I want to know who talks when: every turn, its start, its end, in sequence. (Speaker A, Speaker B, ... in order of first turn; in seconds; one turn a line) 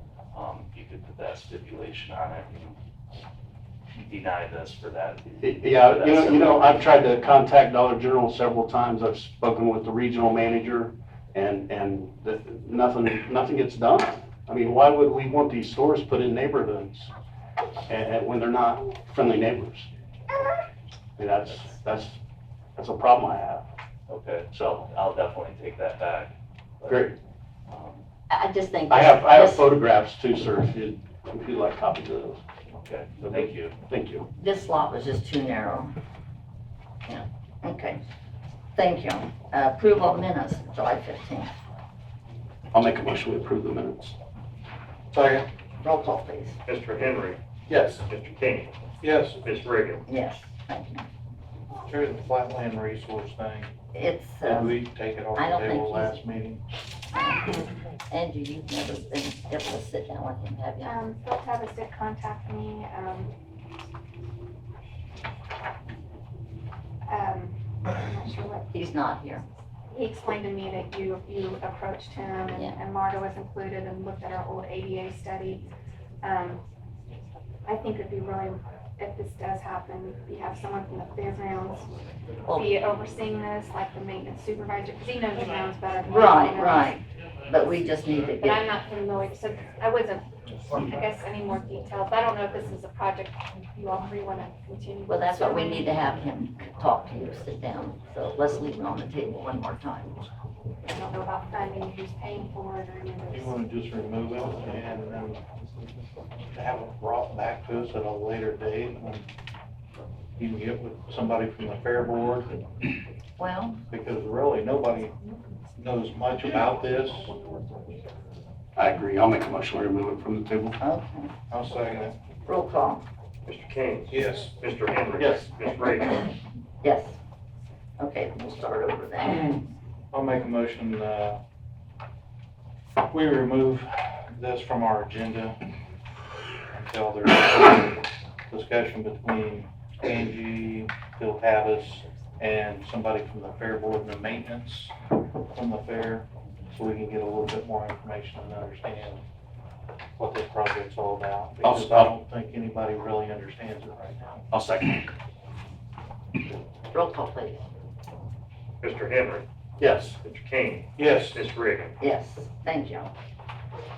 Speaker A: 0.3-2.8
Speaker A: 4.0-6.9
Speaker B: 5.4-17.1
Speaker B: 17.9-19.9
Speaker B: 21.2-22.2
Speaker B: 22.8-23.6
Speaker A: 24.1-27.1
Speaker B: 24.5-24.8
Speaker B: 26.9-27.2
Speaker A: 27.7-28.0
Speaker C: 28.3-29.7
Speaker B: 28.9-32.4
Speaker A: 32.8-33.8
Speaker B: 33.2-34.3
Speaker C: 34.4-35.9
Speaker C: 37.1-38.0
Speaker C: 38.8-41.5
Speaker B: 42.7-44.2
Speaker D: 45.1-45.5
Speaker C: 45.8-46.6
Speaker E: 46.7-47.4
Speaker D: 47.7-48.1
Speaker E: 48.1-48.7
Speaker D: 49.0-49.4
Speaker E: 49.4-50.0
Speaker C: 50.1-51.1
Speaker D: 51.9-53.7
Speaker C: 53.9-54.8
Speaker D: 54.4-56.6
Speaker C: 55.4-56.2
Speaker C: 58.1-60.9
Speaker F: 60.8-63.3
Speaker F: 67.1-68.7
Speaker C: 68.7-69.5
Speaker F: 69.9-75.7
Speaker C: 72.5-72.8
Speaker F: 76.2-76.6
Speaker F: 77.7-81.9
Speaker F: 82.5-87.0
Speaker C: 86.1-88.6
Speaker F: 88.4-96.0
Speaker C: 95.1-100.2
Speaker F: 100.8-103.6
Speaker D: 103.3-105.4
Speaker D: 106.5-109.3
Speaker D: 110.4-112.5
Speaker C: 113.4-113.8
Speaker D: 113.9-115.2
Speaker D: 115.8-117.3
Speaker B: 118.8-120.8
Speaker C: 120.8-121.3
Speaker D: 121.5-122.2
Speaker C: 122.5-123.0
Speaker E: 123.5-126.3
Speaker D: 124.1-124.5
Speaker D: 125.2-125.5
Speaker C: 126.8-127.2
Speaker C: 128.0-129.6
Speaker D: 130.1-131.4
Speaker D: 133.1-135.6
Speaker D: 136.7-144.9
Speaker D: 145.5-149.2
Speaker D: 150.2-154.4
Speaker B: 151.6-152.1
Speaker B: 154.5-155.1
Speaker C: 156.9-157.6
Speaker E: 158.8-159.4
Speaker B: 159.8-160.2
Speaker E: 160.2-161.9
Speaker D: 161.0-161.4
Speaker C: 162.0-163.1